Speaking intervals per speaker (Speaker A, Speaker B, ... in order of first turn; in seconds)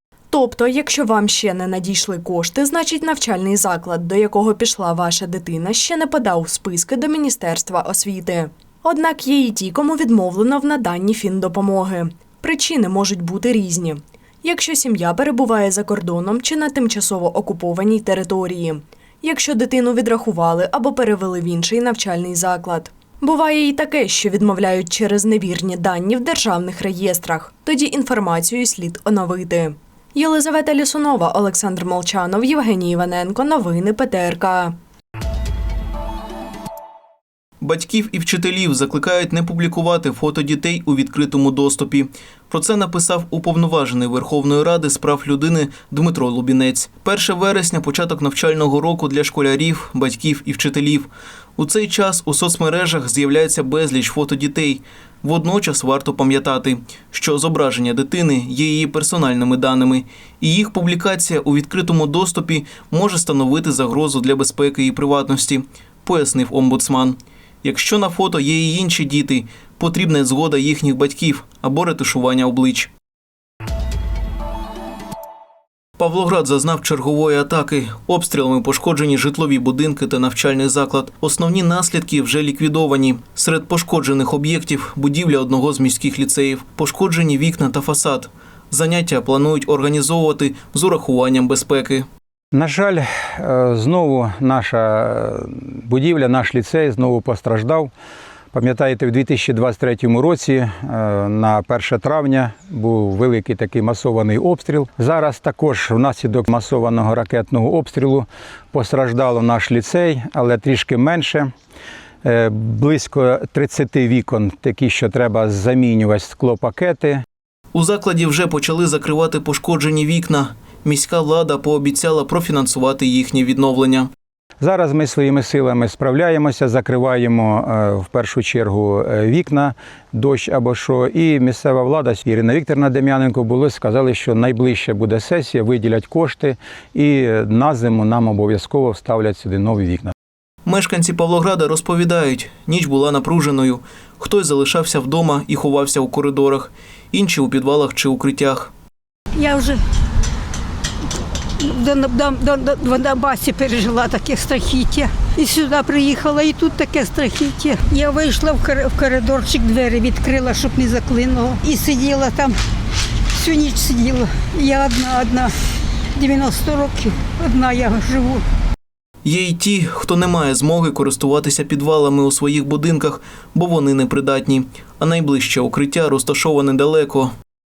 Speaker A: 0.3-34.7
Speaker B: 37.6-72.9, 76.0-92.1, 117.7-124.1, 140.6-148.7, 169.2-177.3
Speaker C: 92.5-97.9, 98.5-111.5, 112.2-117.2, 124.6-140.1
Speaker D: 149.4-149.8, 151.7-162.5, 163.4-165.5, 166.2-168.4